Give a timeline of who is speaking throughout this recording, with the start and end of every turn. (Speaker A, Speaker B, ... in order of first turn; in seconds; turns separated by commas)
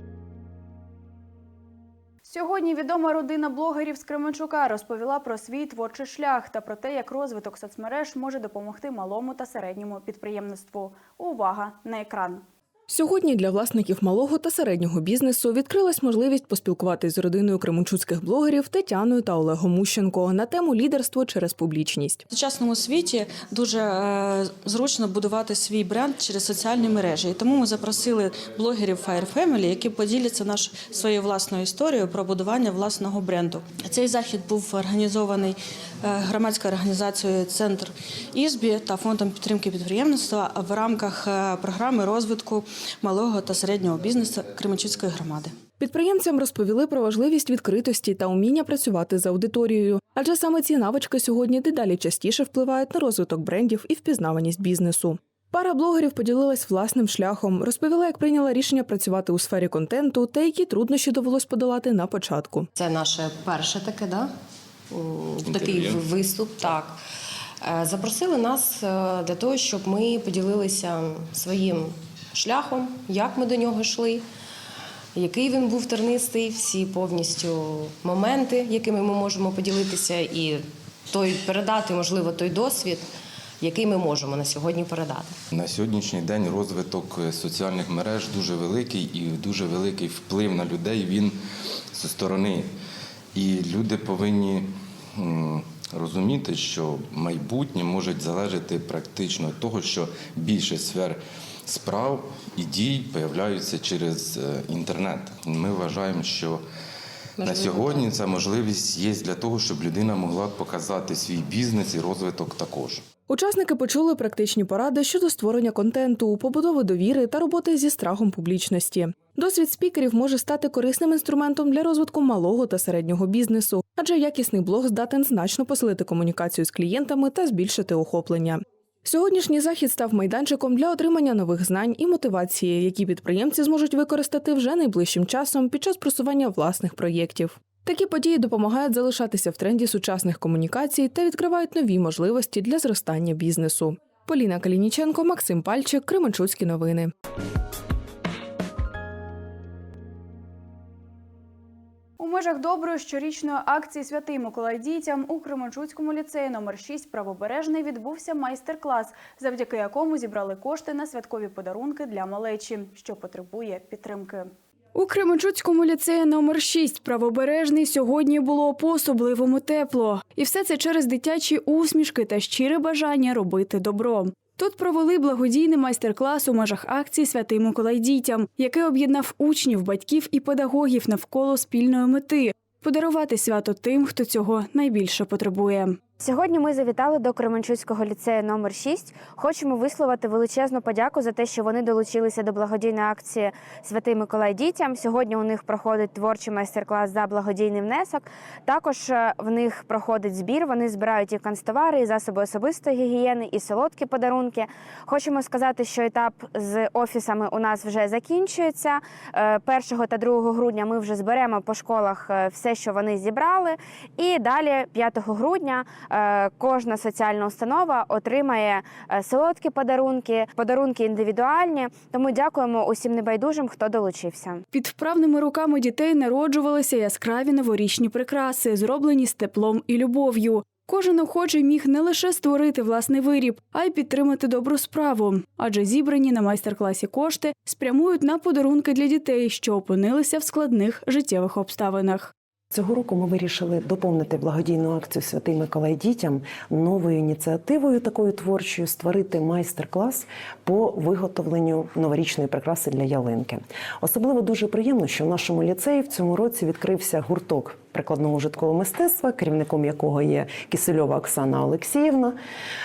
Speaker A: 2.2-12.4, Speaker B: 12.9-22.2, Speaker C: 22.3-45.5, Speaker B: 45.8-62.7, Speaker D: 62.8-64.3, Speaker D: 64.9-67.0, Speaker E: 65.5-66.0, Speaker D: 67.6-74.3, Speaker D: 75.2-83.1, Speaker D: 83.6-85.4, Speaker E: 85.5-91.4, Speaker E: 91.9-92.7, Speaker E: 93.3-106.6, Speaker E: 107.4-113.0, Speaker D: 107.4-108.1, Speaker B: 113.3-147.1, Speaker A: 152.2-186.0, Speaker F: 186.2-224.6, Speaker A: 224.7-242.3, Speaker G: 242.7-262.4